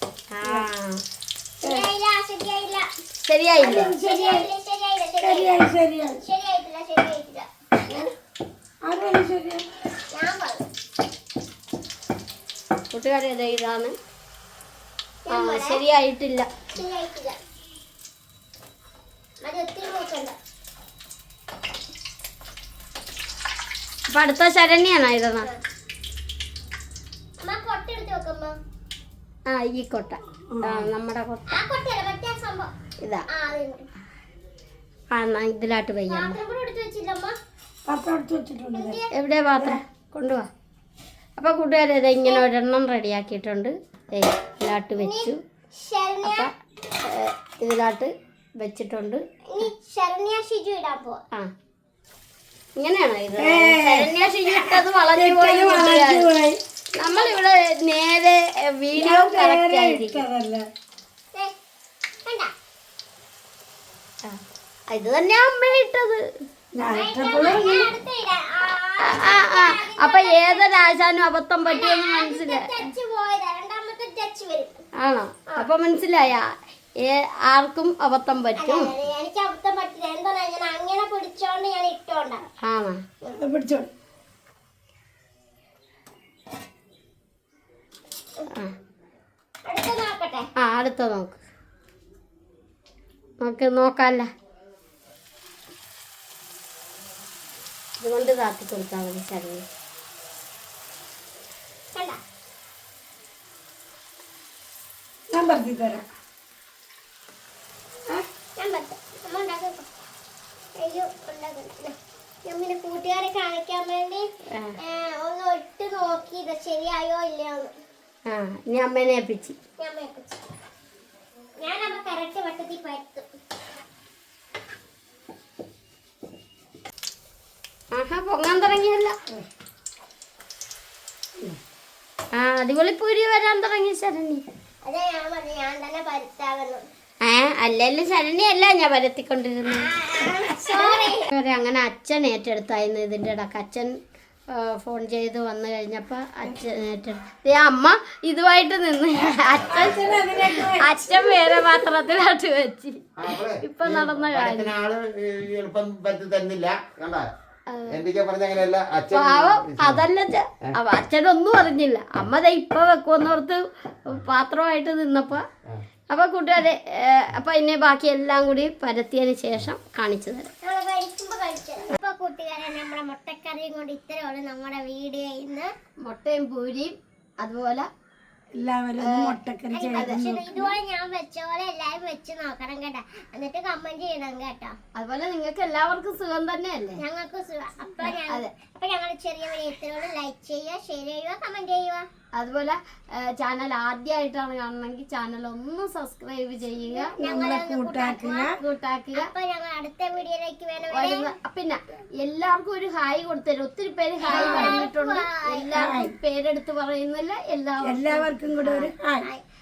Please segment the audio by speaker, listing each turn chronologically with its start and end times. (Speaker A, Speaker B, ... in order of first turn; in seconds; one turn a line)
Speaker A: 0.3-1.0
Speaker B: 1.6-2.9
Speaker A: 3.2-3.9
Speaker C: 3.6-4.5
Speaker B: 3.8-7.5
Speaker C: 5.2-6.2
Speaker C: 8.8-9.6
Speaker B: 10.1-10.6
Speaker A: 12.9-13.9
Speaker B: 15.2-15.8
Speaker A: 15.3-16.5
Speaker B: 16.7-17.4
Speaker B: 19.4-20.3
Speaker A: 24.1-25.5
Speaker B: 27.4-28.5
Speaker A: 29.5-31.6
Speaker C: 30.5-30.9
Speaker B: 31.5-32.7
Speaker B: 33.3-33.9
Speaker A: 35.1-36.4
Speaker B: 36.1-37.3
Speaker C: 37.9-39.0
Speaker B: 38.7-39.1
Speaker A: 39.1-40.5
Speaker A: 41.4-45.4
Speaker B: 45.0-46.5
Speaker A: 46.2-46.5
Speaker A: 47.0-49.7
Speaker B: 49.5-51.2
Speaker A: 52.8-56.3
Speaker C: 53.4-56.6
Speaker B: 57.0-57.4
Speaker A: 57.0-60.2
Speaker C: 59.0-60.6
Speaker A: 64.9-66.2
Speaker C: 66.7-67.9
Speaker B: 66.9-71.0
Speaker A: 69.0-72.9
Speaker B: 71.6-74.8
Speaker A: 75.0-78.9
Speaker B: 78.6-82.4
Speaker A: 82.6-83.0
Speaker C: 83.4-83.9
Speaker B: 89.6-90.5
Speaker A: 90.6-91.4
Speaker A: 93.4-94.3
Speaker A: 98.0-99.6
Speaker C: 105.3-106.0
Speaker B: 108.6-109.9
Speaker B: 110.8-111.9
Speaker B: 112.5-114.3
Speaker B: 114.8-117.7
Speaker A: 118.3-119.5
Speaker B: 119.8-120.4
Speaker B: 121.6-123.2
Speaker A: 127.9-129.1
Speaker A: 132.3-134.4
Speaker B: 134.8-136.8
Speaker A: 137.2-139.9
Speaker B: 139.8-141.2
Speaker A: 140.7-143.9
Speaker A: 144.5-153.1
Speaker C: 149.3-151.9
Speaker D: 153.2-157.3
Speaker A: 153.6-154.7
Speaker A: 157.7-158.0
Speaker D: 157.9-160.1
Speaker A: 159.1-165.4
Speaker A: 166.1-170.5
Speaker B: 170.6-175.7
Speaker A: 176.0-177.9
Speaker C: 178.5-180.7
Speaker A: 179.0-179.3
Speaker B: 179.7-184.7
Speaker A: 184.9-187.0
Speaker B: 187.0-192.1
Speaker A: 188.0-188.5
Speaker A: 192.3-197.1
Speaker B: 196.9-198.5
Speaker C: 197.1-198.6
Speaker A: 198.6-199.3
Speaker B: 199.1-201.3
Speaker A: 200.9-208.9
Speaker B: 204.2-205.7
Speaker C: 204.3-204.8
Speaker C: 205.7-206.1
Speaker C: 207.8-209.3